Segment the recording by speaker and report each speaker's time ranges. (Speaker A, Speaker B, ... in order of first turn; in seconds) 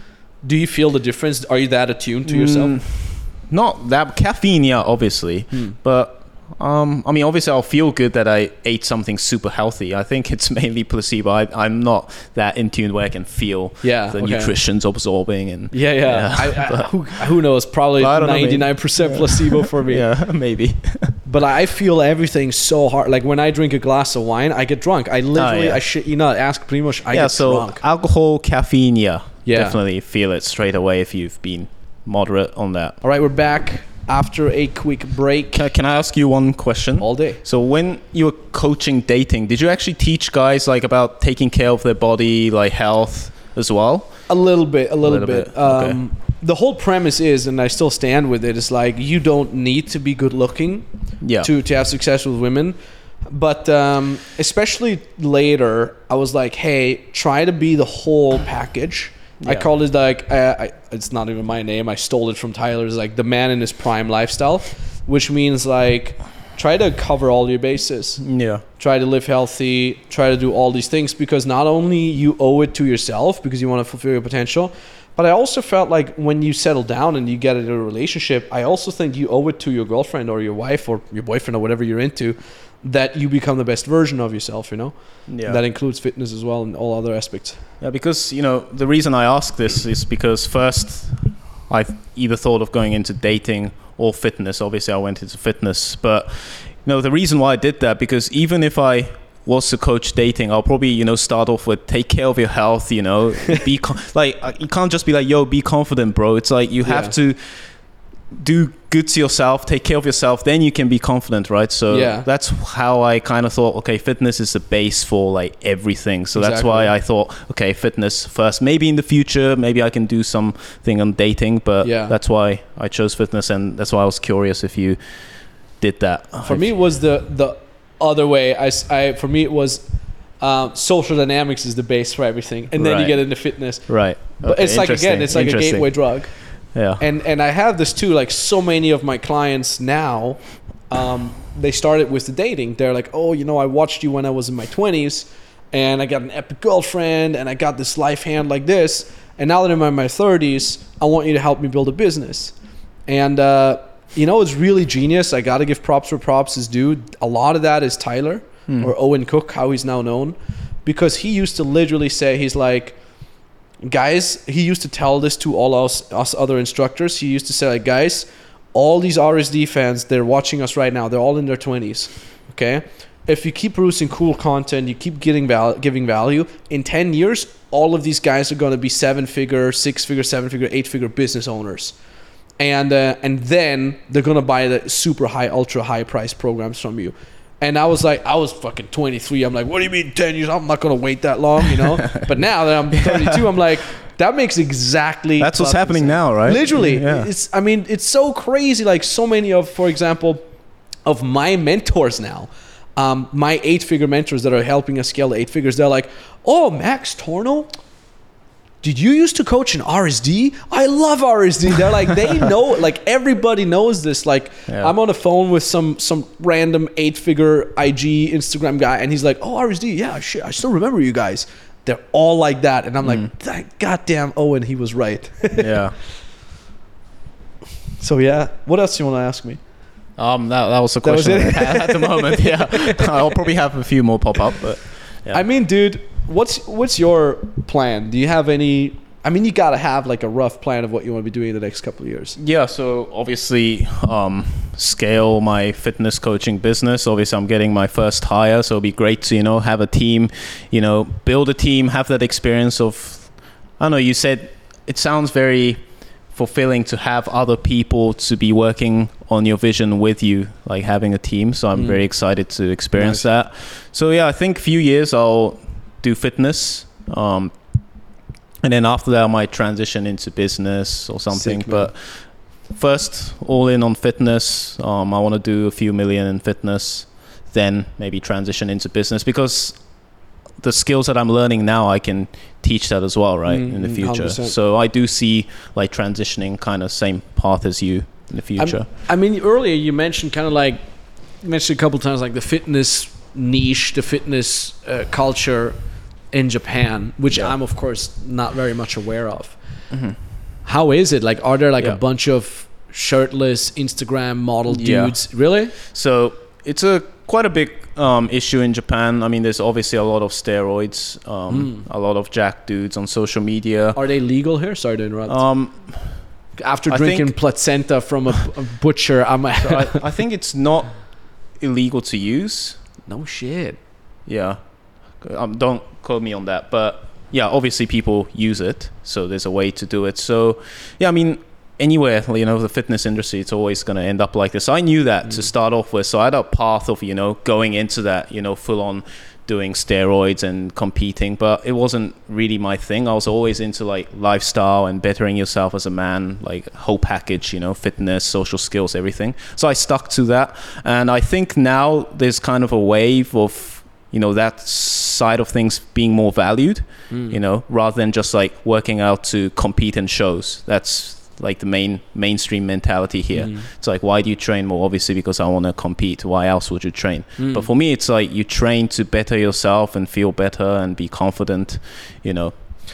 Speaker A: 0.4-2.8, 5.5-5.8, 13.8-14.5, 15.7-20.1, 21.2-27.8, 29.5-29.8, 33.0-35.6, 37.0-37.4, 44.3-87.6, 106.8-107.1, 111.9-112.3, 116.3-117.0, 121.8-122.2, 126.4-152.6, 153.1-163.0, 163.8-182.0, 182.6-200.4, 201.1-207.7, 208.8-225.8, 228.0-229.6, 231.0-233.4, 235.3-242.4, 261.8-262.1, 263.0-263.3, 271.3-271.9, 283.5-284.6, 288.6-295.8, 296.3-299.6, 300.6-305.7, 311.5-311.9, 314.0-315.5, 316.6-320.0, 323.1-323.8, 357.1-357.4, 363.4-363.7, 367.4-367.7
Speaker B: 2.3-17.3, 18.0-21.2, 25.4-25.8, 27.1-33.0, 35.5-44.3, 45.0-46.0, 51.2-51.5, 59.4-59.7, 68.2-68.6, 85.3-85.6, 87.8-126.7, 132.8-137.0, 192.9-193.4, 195.4-197.3, 214.7-214.9, 223.0-223.3, 225.6-225.9, 230.2-235.4, 242.4-267.6, 268.6-288.9, 299.9-300.2, 304.7-305.2, 305.8-314.0, 315.3-316.4, 316.9-317.3, 319.6-322.8, 324.3-372.6